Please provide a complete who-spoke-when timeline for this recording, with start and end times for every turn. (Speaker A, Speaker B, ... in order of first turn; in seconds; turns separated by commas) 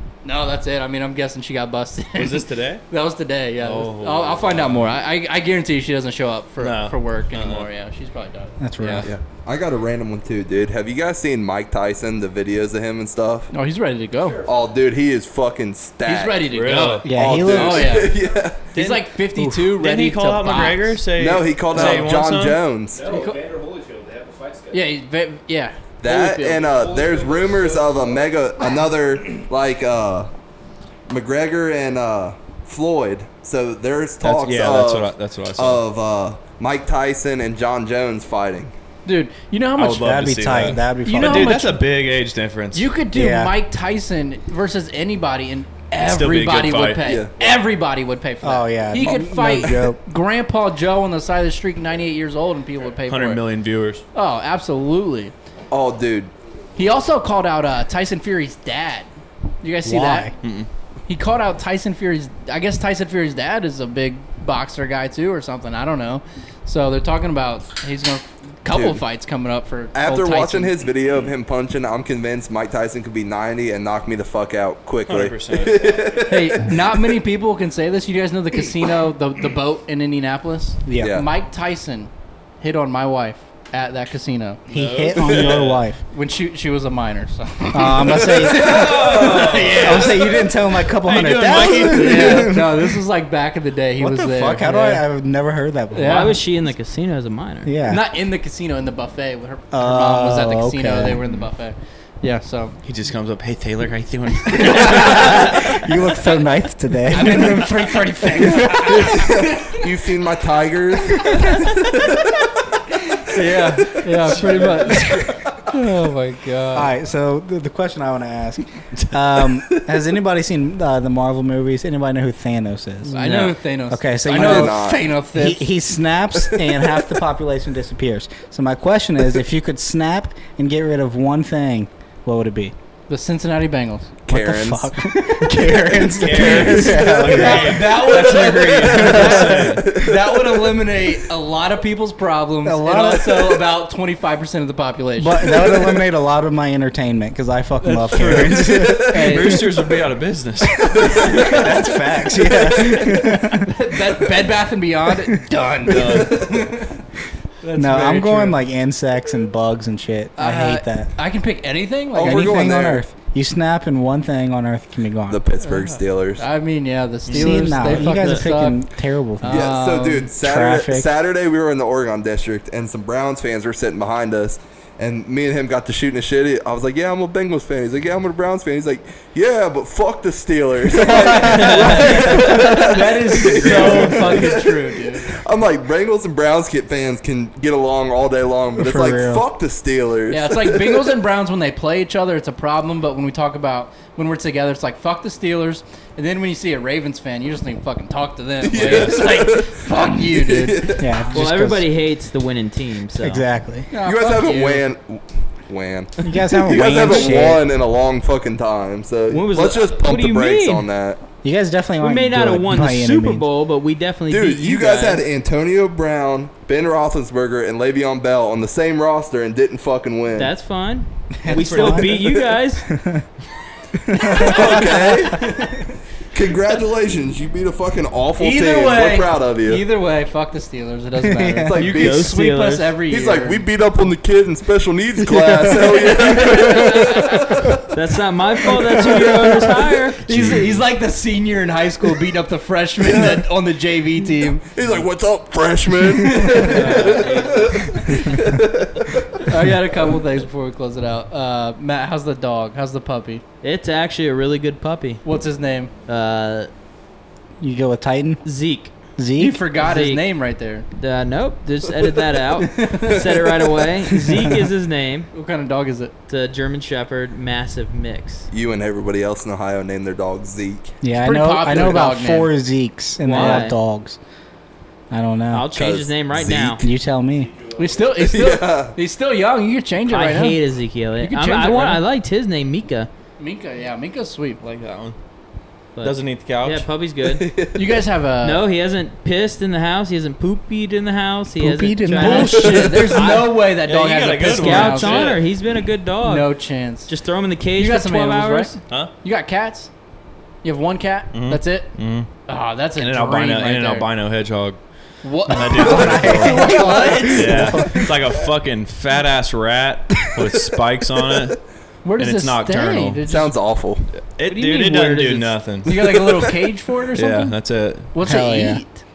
Speaker A: 0.2-9.1, Speaker B: 2.2-2.8, Speaker B: 3.6-5.0, Speaker B: 6.6-7.7, Speaker C: 8.6-9.1, Speaker D: 9.0-13.5, Speaker A: 13.5-14.4, Speaker E: 14.2-14.6, Speaker D: 14.5-18.6, Speaker A: 16.1-18.2, Speaker B: 16.5-17.1, Speaker C: 17.1-18.1, Speaker A: 18.7-21.0, Speaker B: 18.7-22.6, Speaker D: 21.2-23.1, Speaker A: 21.7-22.1, Speaker E: 22.9-24.9, Speaker A: 23.1-23.4, Speaker A: 24.7-26.7, Speaker D: 26.0-30.3, Speaker E: 26.6-28.3, Speaker D: 31.1-38.7, Speaker B: 34.2-35.8, Speaker A: 39.1-40.1, Speaker B: 39.8-42.9, Speaker C: 39.9-41.6, Speaker A: 41.0-41.8, Speaker A: 42.7-53.4, Speaker C: 43.1-43.5, Speaker B: 46.0-47.1, Speaker D: 47.0-47.3, Speaker C: 48.4-50.0, Speaker B: 53.1-54.0, Speaker A: 54.1-55.3, Speaker D: 55.7-56.3, Speaker A: 56.8-59.1, Speaker A: 59.6-60.3, Speaker C: 59.8-60.3, Speaker B: 60.4-60.7, Speaker A: 61.1-70.8, Speaker D: 68.7-69.0, Speaker D: 69.9-77.1, Speaker B: 75.1-76.1, Speaker A: 76.3-82.1, Speaker C: 80.8-81.2, Speaker D: 81.0-81.3, Speaker A: 82.6-84.6, Speaker C: 84.7-86.0, Speaker B: 84.7-85.8, Speaker A: 86.1-90.3, Speaker C: 87.7-93.0, Speaker B: 88.5-90.2, Speaker D: 88.8-89.0, Speaker B: 90.9-92.5, Speaker A: 91.9-95.0, Speaker C: 94.0-96.3, Speaker A: 95.9-96.4, Speaker F: 96.0-97.7, Speaker C: 97.7-98.0, Speaker A: 97.9-102.8, Speaker C: 99.7-101.3, Speaker B: 102.8-105.8, Speaker C: 104.7-109.1, Speaker A: 107.1-109.8, Speaker D: 108.9-112.5, Speaker D: 113.1-115.6, Speaker A: 113.3-116.9, Speaker B: 114.5-115.0, Speaker C: 116.7-132.7, Speaker A: 123.1-125.7, Speaker D: 124.3-125.1, Speaker A: 133.1-134.1, Speaker D: 134.3-135.0, Speaker C: 134.3-139.7, Speaker D: 136.1-136.6, Speaker B: 136.1-139.8, Speaker A: 136.4-145.8, Speaker D: 139.8-140.6, Speaker C: 142.6-143.6, Speaker C: 145.2-149.6, Speaker A: 147.8-149.7, Speaker B: 149.1-151.6, Speaker D: 151.0-151.6, Speaker C: 151.1-153.7, Speaker A: 153.4-157.0, Speaker B: 155.9-156.5, Speaker A: 157.6-158.6, Speaker C: 157.8-161.1, Speaker A: 160.4-162.6, Speaker D: 162.1-163.1, Speaker C: 162.2-165.4, Speaker D: 165.3-166.5, Speaker A: 165.6-168.8, Speaker C: 167.3-169.7, Speaker F: 168.1-168.4, Speaker A: 169.4-170.3, Speaker D: 169.5-191.1, Speaker C: 170.4-171.1, Speaker A: 181.2-185.3, Speaker F: 181.8-182.2, Speaker B: 183.4-184.4, Speaker C: 188.8-189.5, Speaker A: 190.3-201.0, Speaker D: 198.6-201.1, Speaker B: 198.8-199.2, Speaker C: 201.0-201.9, Speaker F: 201.3-203.4, Speaker C: 203.2-203.9, Speaker A: 203.9-204.9, Speaker D: 204.0-211.2, Speaker C: 206.2-207.6, Speaker F: 209.3-210.9, Speaker C: 211.4-213.4, Speaker F: 212.0-215.2, Speaker D: 214.3-220.5, Speaker F: 220.3-222.9, Speaker C: 221.4-223.2, Speaker D: 221.7-222.1, Speaker C: 224.1-225.7, Speaker D: 224.2-225.7, Speaker D: 226.3-229.8, Speaker A: 228.4-233.6, Speaker C: 231.2-231.8, Speaker D: 231.7-232.3, Speaker F: 231.8-233.0, Speaker D: 233.1-237.9, Speaker C: 235.2-236.8, Speaker A: 236.3-237.0, Speaker F: 237.9-240.2, Speaker A: 240.2-244.6, Speaker D: 243.0-243.4, Speaker D: 244.6-249.5, Speaker A: 246.3-247.2, Speaker F: 246.7-247.9, Speaker A: 249.4-253.4, Speaker F: 253.6-255.2, Speaker A: 255.2-255.9, Speaker F: 256.1-256.7, Speaker C: 257.6-258.4, Speaker F: 258.4-258.9, Speaker C: 259.2-259.6, Speaker A: 259.4-260.9, Speaker F: 259.8-260.2, Speaker F: 261.0-265.3, Speaker A: 262.6-263.2, Speaker A: 265.3-266.1, Speaker F: 266.3-268.5, Speaker D: 268.5-270.9, Speaker C: 271.0-274.2, Speaker A: 271.1-272.5, Speaker F: 273.2-273.8, Speaker A: 273.3-273.7, Speaker C: 275.1-275.7, Speaker F: 275.5-276.9, Speaker D: 275.7-276.8, Speaker C: 276.7-277.5, Speaker E: 277.4-278.1, Speaker A: 277.8-280.6, Speaker D: 278.2-279.0, Speaker F: 280.1-283.1, Speaker A: 281.2-282.0, Speaker A: 283.4-284.6, Speaker B: 284.6-285.2, Speaker F: 286.0-287.5, Speaker B: 286.0-286.9, Speaker D: 287.2-288.0, Speaker A: 287.8-288.6, Speaker F: 288.4-293.6, Speaker C: 291.6-292.9, Speaker A: 292.2-295.3, Speaker B: 293.8-295.4, Speaker F: 294.4-296.5, Speaker A: 296.2-297.1, Speaker F: 297.1-298.8, Speaker A: 297.8-299.9, Speaker A: 300.6-301.9, Speaker B: 301.3-302.3, Speaker A: 302.5-304.1, Speaker B: 303.0-304.8, Speaker A: 305.2-307.7, Speaker B: 305.4-311.6, Speaker C: 305.6-308.1, Speaker A: 312.0-313.5, Speaker B: 312.2-313.2, Speaker D: 313.3-314.1, Speaker B: 314.3-316.2, Speaker F: 314.5-315.5, Speaker A: 315.9-317.6, Speaker D: 315.9-316.5, Speaker B: 317.1-318.1, Speaker A: 318.1-319.0, Speaker C: 318.2-318.8